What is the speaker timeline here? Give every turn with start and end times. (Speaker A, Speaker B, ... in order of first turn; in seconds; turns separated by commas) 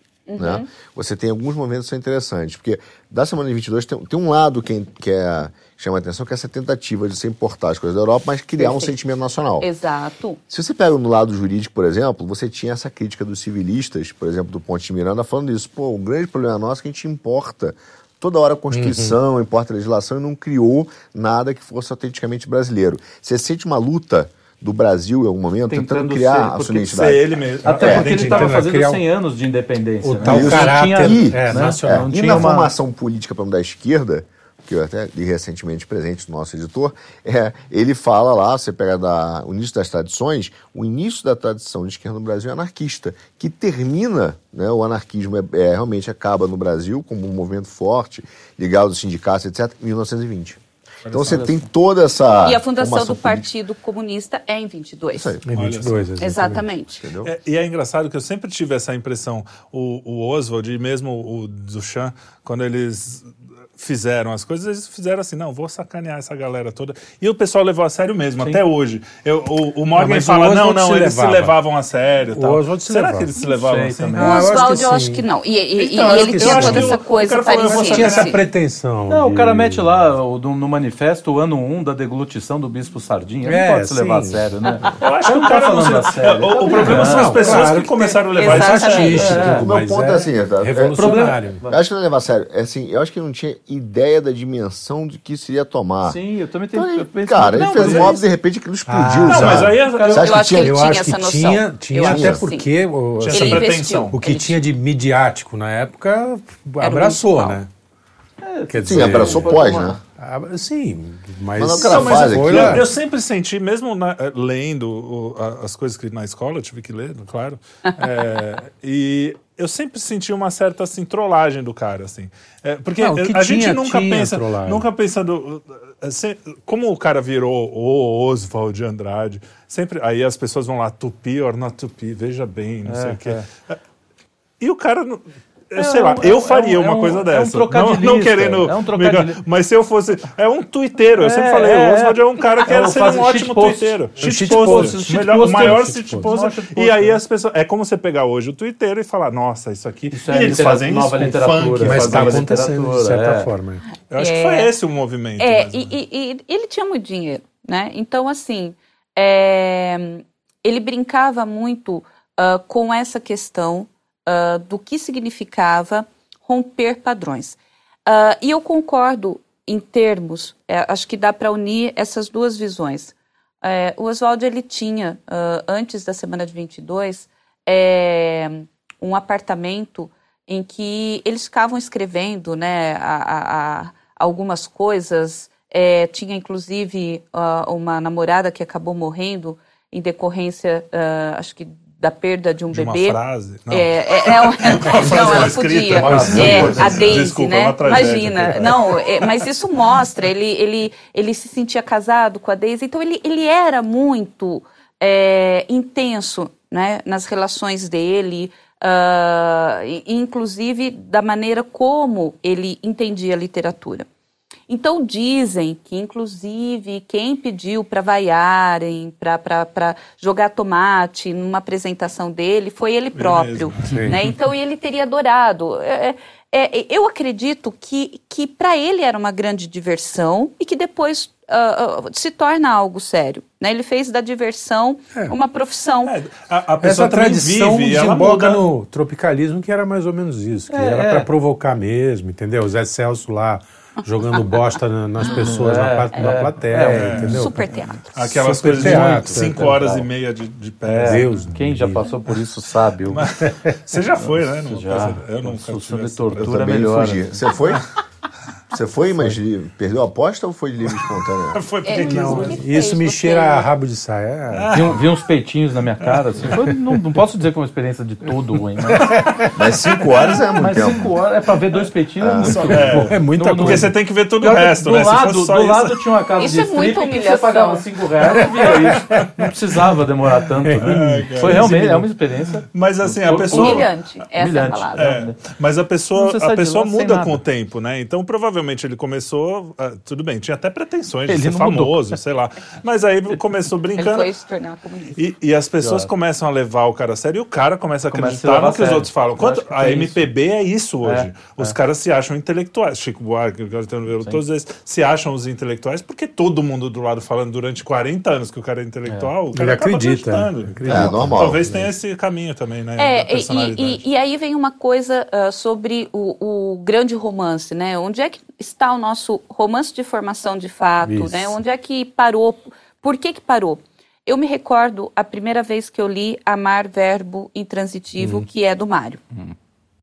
Speaker A: 0.3-0.7, Speaker B: 0.4-9.7, Speaker A: 8.6-8.9, Speaker A: 9.6-10.4, Speaker B: 10.5-27.2, Speaker C: 18.7-19.2, Speaker D: 25.7-27.0, Speaker E: 26.9-28.6, Speaker D: 27.6-32.7, Speaker C: 27.7-29.0, Speaker B: 27.8-28.1, Speaker C: 30.0-32.5, Speaker B: 30.2-53.5, Speaker E: 51.0-51.5, Speaker D: 51.2-51.5, Speaker A: 52.4-55.4, Speaker B: 55.1-55.4, Speaker C: 55.5-56.6, Speaker E: 55.5-56.0, Speaker A: 56.2-57.0, Speaker B: 57.0-57.3, Speaker E: 57.2-74.6, Speaker C: 70.0-71.5, Speaker C: 72.3-75.3, Speaker D: 73.4-74.5, Speaker A: 74.2-78.4, Speaker C: 75.8-77.0, Speaker E: 76.1-78.4, Speaker C: 77.6-79.9, Speaker D: 79.1-87.7, Speaker C: 83.5-84.9, Speaker E: 85.0-89.5, Speaker C: 86.7-91.6, Speaker A: 88.4-89.4, Speaker D: 89.1-89.7, Speaker B: 89.4-91.1, Speaker D: 91.0-91.8, Speaker B: 91.7-96.2, Speaker D: 96.0-98.2, Speaker B: 96.7-100.8, Speaker E: 97.5-98.2, Speaker C: 98.9-99.7, Speaker E: 99.3-100.3, Speaker D: 99.8-100.4, Speaker A: 100.2-102.7, Speaker C: 100.5-107.7, Speaker B: 102.0-102.4, Speaker E: 103.2-104.1, Speaker A: 103.3-104.6, Speaker A: 106.8-107.6, Speaker D: 108.4-110.0, Speaker C: 108.7-112.9, Speaker B: 108.8-110.0, Speaker B: 111.6-112.8, Speaker E: 111.8-133.8, Speaker C: 123.0-124.9, Speaker D: 132.9-133.4, Speaker E: 134.6-152.5, Speaker D: 135.8-139.4, Speaker D: 141.1-147.2, Speaker C: 144.2-146.3, Speaker D: 150.1-153.5, Speaker C: 151.3-153.8, Speaker E: 154.1-155.9, Speaker A: 154.2-154.7, Speaker A: 155.4-214.1, Speaker E: 192.7-199.3, Speaker C: 195.3-197.1, Speaker D: 196.1-196.9, Speaker A: 214.7-236.1, Speaker E: 223.1-224.1, Speaker C: 223.8-224.2, Speaker E: 236.1-238.6, Speaker C: 236.8-247.7, Speaker D: 240.7-241.3, Speaker D: 245.2-247.4, Speaker A: 246.1-246.4, Speaker E: 246.8-247.4, Speaker A: 247.2-248.3, Speaker E: 248.1-251.5, Speaker C: 248.3-250.0, Speaker D: 248.8-250.0, Speaker D: 250.9-253.2, Speaker C: 251.0-252.2, Speaker E: 253.1-256.6, Speaker C: 253.4-253.7, Speaker D: 254.2-257.4, Speaker B: 256.4-257.9, Speaker B: 258.7-261.6, Speaker E: 260.8-262.6, Speaker A: 261.8-263.7, Speaker C: 261.9-265.0, Speaker E: 264.5-265.0, Speaker D: 264.7-269.1, Speaker E: 266.0-266.6, Speaker C: 268.8-269.6, Speaker E: 268.9-269.2, Speaker B: 269.6-271.1, Speaker E: 269.8-271.0, Speaker D: 270.5-285.4, Speaker B: 272.2-272.8, Speaker C: 272.4-273.9, Speaker E: 272.4-275.9, Speaker A: 276.4-277.9, Speaker E: 278.2-279.3, Speaker C: 278.3-279.5, Speaker C: 280.6-282.0, Speaker E: 280.7-281.8, Speaker E: 282.7-283.9, Speaker A: 283.5-285.2, Speaker E: 284.9-294.3, Speaker D: 286.1-287.4, Speaker D: 291.3-292.2, Speaker A: 293.9-295.2, Speaker E: 295.2-314.0, Speaker D: 295.8-296.1, Speaker D: 298.1-300.2, Speaker D: 301.0-301.8, Speaker C: 309.5-311.9, Speaker B: 310.9-311.6, Speaker A: 313.0-329.2, Speaker C: 321.0-321.6